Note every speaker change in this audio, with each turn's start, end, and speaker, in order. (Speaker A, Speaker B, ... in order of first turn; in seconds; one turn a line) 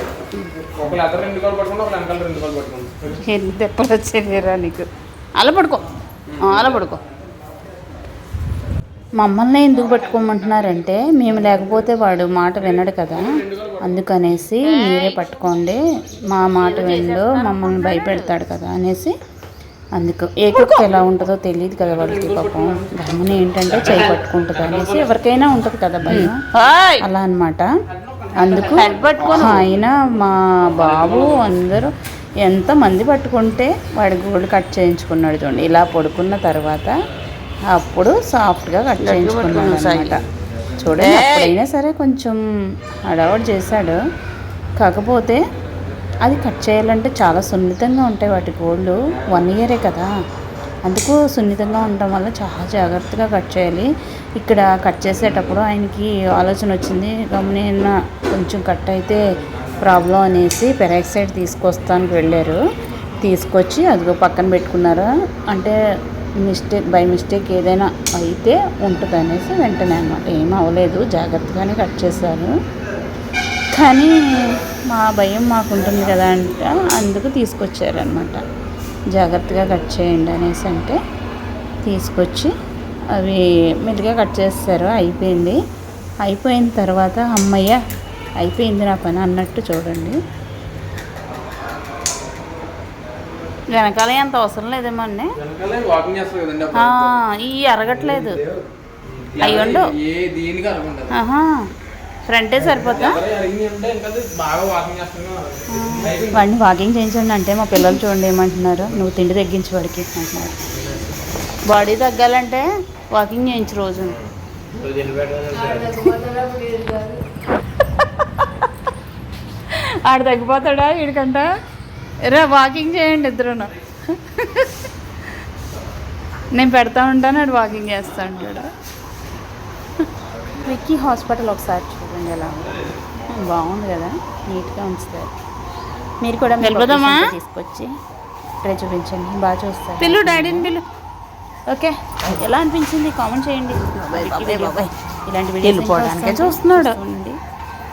Speaker A: 0.6-3.2
Speaker B: 3.2-4.9
Speaker C: 5.4-5.7
Speaker B: 5.4-5.8
Speaker A: 6.3-6.8
Speaker B: 6.5-7.0
Speaker B: 9.2-19.1
Speaker A: 13.1-14.0
Speaker C: 14.6-15.3
Speaker C: 16.5-18.3
Speaker B: 19.9-26.4
Speaker A: 21.8-25.1
Speaker C: 26.1-27.1
Speaker B: 27.0-27.7
Speaker B: 28.4-31.9
Speaker C: 28.4-29.7
Speaker A: 30.8-31.6
Speaker B: 32.4-36.9
Speaker B: 37.7-40.2
Speaker C: 39.0-40.2
Speaker B: 40.7-42.4
Speaker C: 40.9-41.6
Speaker B: 43.1-44.0
Speaker B: 44.8-45.4
Speaker B: 46.2-50.1
Speaker B: 50.9-59.2
Speaker B: 59.8-62.6
Speaker B: 63.2-65.8
Speaker B: 66.4-72.5
Speaker B: 73.7-78.4
Speaker B: 79.1-81.0
Speaker B: 81.8-82.5
Speaker B: 83.1-85.6
Speaker B: 86.2-87.8
Speaker B: 88.4-90.2
Speaker B: 93.7-95.4
Speaker A: 95.4-97.2
Speaker B: 96.8-98.4
Speaker A: 99.2-101.2
Speaker B: 99.4-99.9
Speaker B: 101.1-101.7
Speaker B: 102.3-103.2
Speaker A: 102.8-106.5
Speaker B: 105.7-110.6
Speaker B: 111.7-114.2
Speaker A: 114.8-116.0
Speaker C: 115.6-117.2
Speaker B: 119.7-121.5
Speaker B: 122.2-124.8
Speaker B: 126.5-128.7
Speaker B: 130.6-135.3
Speaker B: 136.2-137.9
Speaker C: 136.6-137.3
Speaker B: 138.6-140.7
Speaker C: 140.0-140.8
Speaker B: 141.7-147.4
Speaker C: 143.9-144.9
Speaker C: 145.6-147.0